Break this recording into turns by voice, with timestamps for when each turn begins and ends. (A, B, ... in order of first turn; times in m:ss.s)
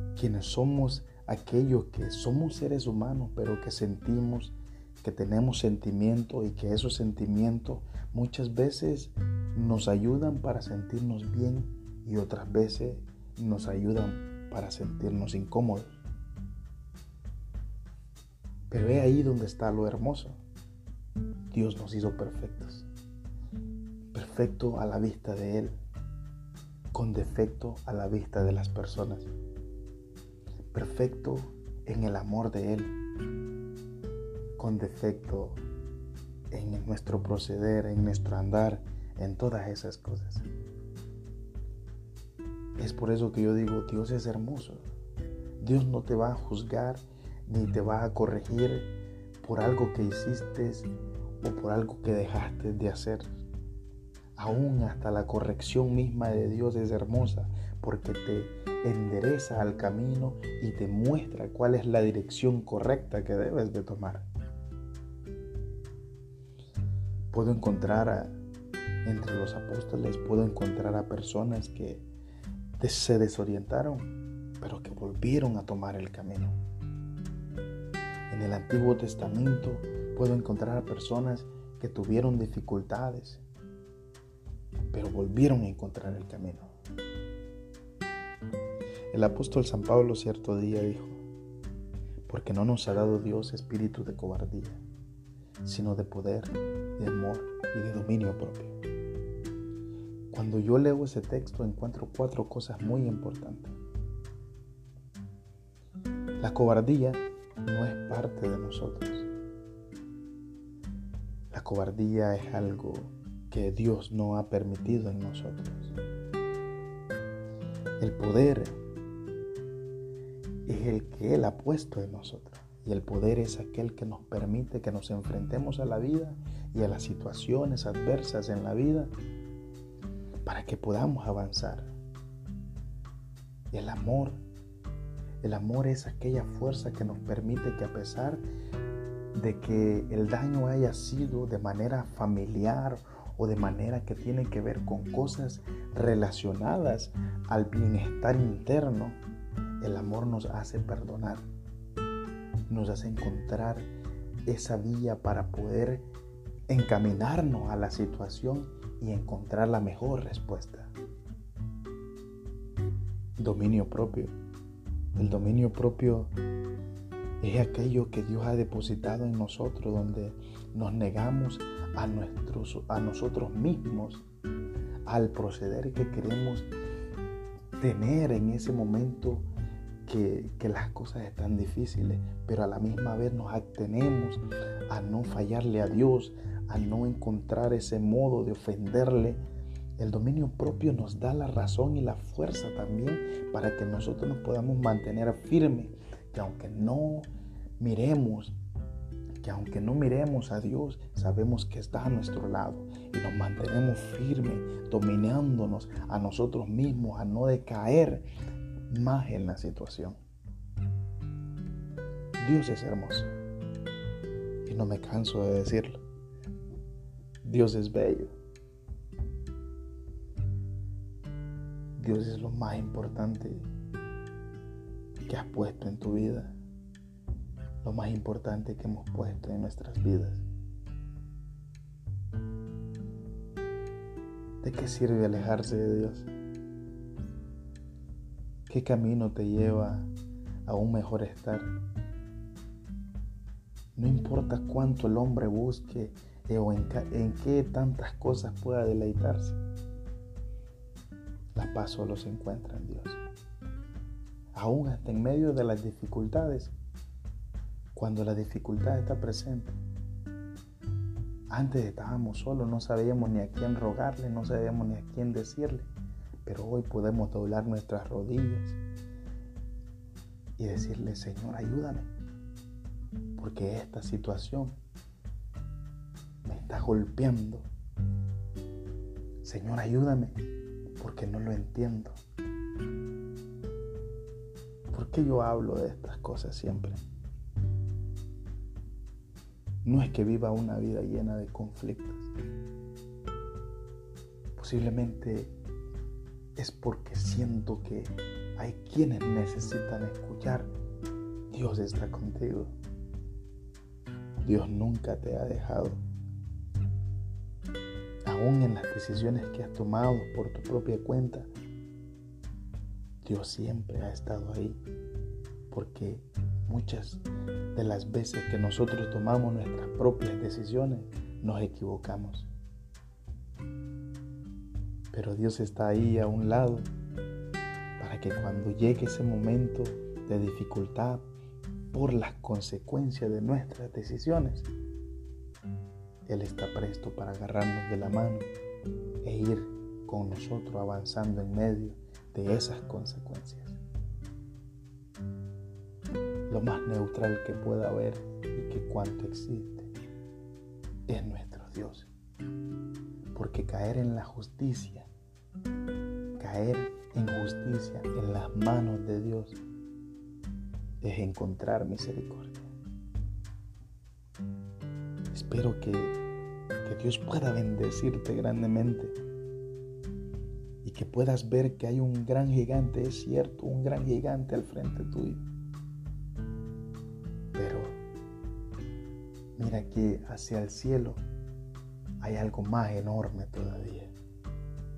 0:00.2-0:16.0 A
0:18.7-0:20.4 A
0:21.5-0:22.8 A
0:24.1-0:25.8 A
0:26.9-0:29.3 A
0:30.7-0:32.9 A
0:34.6-0:35.6 A
0:36.5-0:40.5 A
0:42.8-0:44.9 A
0:45.6-0:48.9 A
0:49.4-0:50.9 A
0:51.4-0:53.2 A
0:54.4-1:04.2 A
1:07.3-1:08.4 A
1:09.0-1:12.1 A
1:12.8-1:16.6 A
1:18.3-1:23.4 A
1:24.9-1:26.7 A
1:29.1-1:31.2 A
1:32.3-1:34.8 A
1:35.6-1:38.7 A
1:40.3-1:43.8 A
1:46.4-1:49.3 A
1:51.5-1:55.9 A
1:58.0-1:58.8 A
2:00.7-2:09.1 A
2:10.4-2:11.9 A
2:13.7-2:14.4 A
2:15.4-2:18.4 A
2:19.3-2:29.2 A
2:29.8-2:31.4 A
2:32.7-2:33.9 A
2:34.5-2:36.0 A
2:36.7-2:40.9 A
2:43.4-2:44.3 A
2:45.2-2:46.3 A
2:47.4-2:54.2 A
2:55.0-2:56.7 A
2:57.8-2:59.5 A
3:00.0-3:09.4 A
3:10.0-3:18.6 A
3:19.4-3:28.3 A
3:28.9-3:30.2 A
3:32.4-3:33.3 A
3:34.6-3:36.0 A
3:37.4-3:38.3 A
3:42.0-3:43.7 A
3:45.3-3:46.5 A
3:47.8-3:50.4 A
3:54.6-3:56.3 A
3:58.7-4:00.1 A
4:00.7-4:01.7 A
4:04.0-4:09.6 A
4:11.5-4:13.2 A
4:14.5-4:16.7 A
4:18.0-4:19.8 A
4:21.5-4:25.9 A
4:26.4-4:28.8 A
4:30.6-4:32.1 A
4:33.4-4:34.8 A
4:36.4-4:37.7 A
4:39.4-4:40.4 A
4:41.0-4:42.2 A
4:44.9-4:47.0 A
4:49.8-4:52.3 A
4:54.6-4:55.5 A
4:56.6-5:00.7 A
5:01.5-5:02.7 A
5:04.4-5:06.0 A
5:08.2-5:11.5 A
5:13.2-5:14.8 A
5:15.7-5:17.2 A
5:17.8-5:22.5 A
5:25.1-5:26.9 A
5:28.0-5:31.2 A
5:31.9-5:34.7 A
5:36.2-5:38.5 A
5:39.2-5:43.8 A
5:46.5-5:49.9 A
5:51.1-5:52.1 A
5:53.3-5:55.1 A
5:56.4-5:59.6 A
6:01.0-6:02.7 A
6:05.3-6:06.2 A
6:06.8-6:09.1 A
6:10.8-6:15.4 A
6:17.6-6:18.0 A
6:19.6-6:21.2 A
6:22.2-6:24.1 A